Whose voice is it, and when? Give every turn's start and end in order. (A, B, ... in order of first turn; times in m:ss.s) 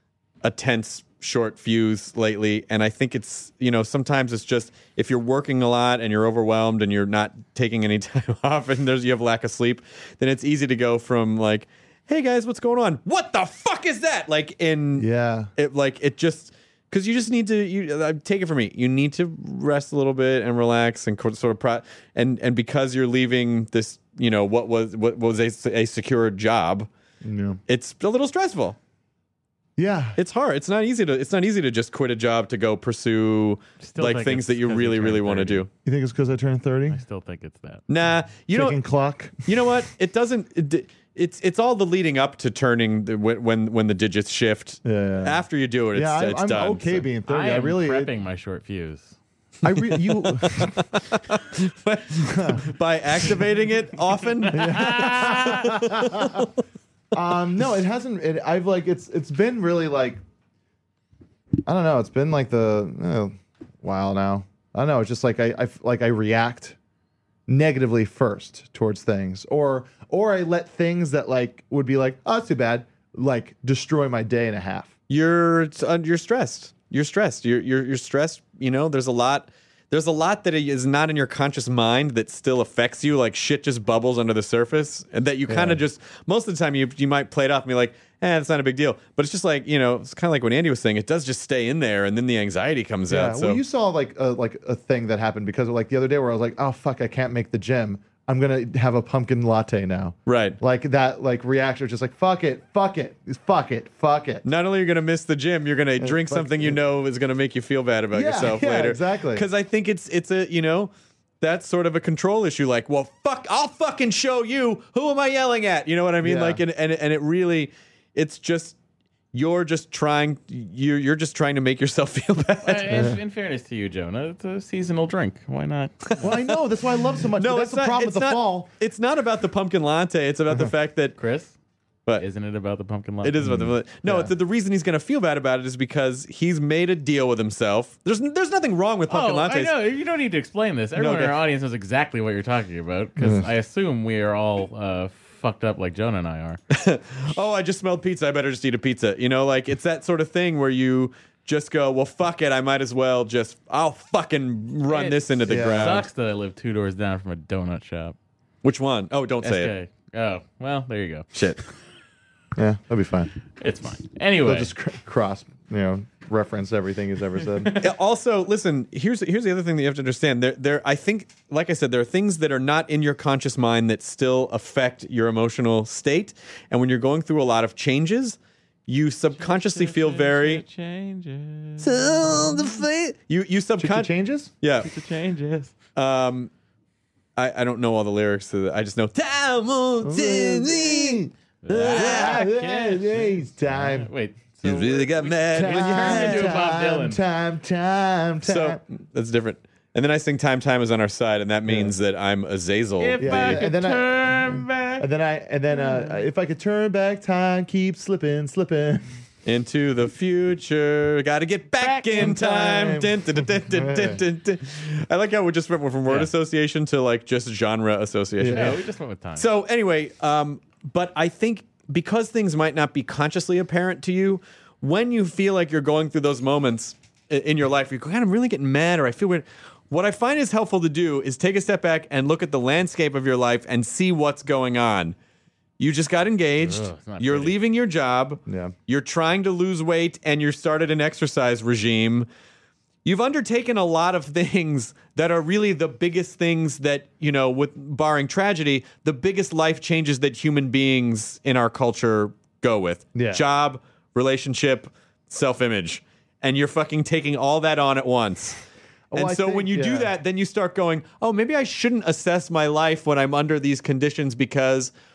0:00.4-0:26.9 A
0:15.0-0:15.5 B
0:27.2-0:27.6 B
0:27.7-0:28.8 A
0:29.8-0:30.2 B
0:30.2-0:35.7 A
0:33.8-0:35.6 C
0:35.8-0:37.0 B
0:36.9-0:37.8 C
0:37.9-0:38.8 A
0:38.5-0:39.4 B
0:39.4-0:47.0 A
0:44.8-0:48.1 B
0:47.2-0:49.2 C
0:49.6-0:50.8 B
0:50.1-0:56.5 A
0:52.3-0:52.6 B
0:54.5-0:55.7 C
0:54.5-0:56.5 B
0:57.1-1:00.2 B
1:01.6-1:06.8 B
1:07.5-1:14.9 B
1:15.1-1:33.6 A
1:25.5-1:25.8 B
1:33.1-1:44.4 B
1:40.2-1:40.6 A
1:44.4-1:58.8 A
1:46.0-1:46.8 B
1:48.1-1:49.4 B
1:56.2-1:56.6 B
1:59.3-2:03.1 A
2:02.6-2:06.3 C
2:02.9-2:03.2 B
2:06.2-2:08.7 B
2:06.2-2:06.6 A
2:07.4-2:11.2 A
2:11.2-2:11.5 C
2:12.2-2:13.4 C
2:13.2-2:19.8 A
2:13.4-2:14.3 B
2:19.1-2:26.6 C
2:21.0-2:21.4 A
2:23.2-2:23.5 B
2:26.7-2:36.1 A
2:34.9-2:38.2 C
2:35.5-2:36.0 B
2:38.6-2:39.7 A
2:39.4-2:41.3 C
2:41.3-2:41.6 A
2:42.6-2:43.3 B
2:43.6-2:44.7 C
2:44.4-2:47.8 B
2:47.6-2:47.9 C
2:47.8-3:00.6 A
2:59.3-3:02.9 C
3:01.8-3:04.9 A
3:03.8-3:04.5 B
3:04.8-3:05.7 C
3:06.0-3:06.5 A
3:07.4-3:12.5 A
3:10.0-3:14.1 B
3:11.6-3:17.2 C
3:14.6-3:16.6 A
3:15.5-3:18.8 B
3:18.4-3:23.6 A
3:21.6-3:21.9 B
3:23.0-3:25.0 C
3:23.2-3:29.0 B
3:25.7-3:26.2 C
3:29.4-3:38.8 A
3:31.8-3:33.0 C
3:32.1-3:34.2 B
3:36.0-3:36.3 C
3:38.4-3:38.8 B
3:38.5-3:39.4 C
3:39.4-3:55.2 A
3:55.8-4:02.3 A
3:56.6-3:57.6 C
3:58.4-3:58.7 B
4:03.0-4:18.6 A
4:13.1-4:13.4 B
4:19.1-4:20.1 B
4:19.1-4:24.9 A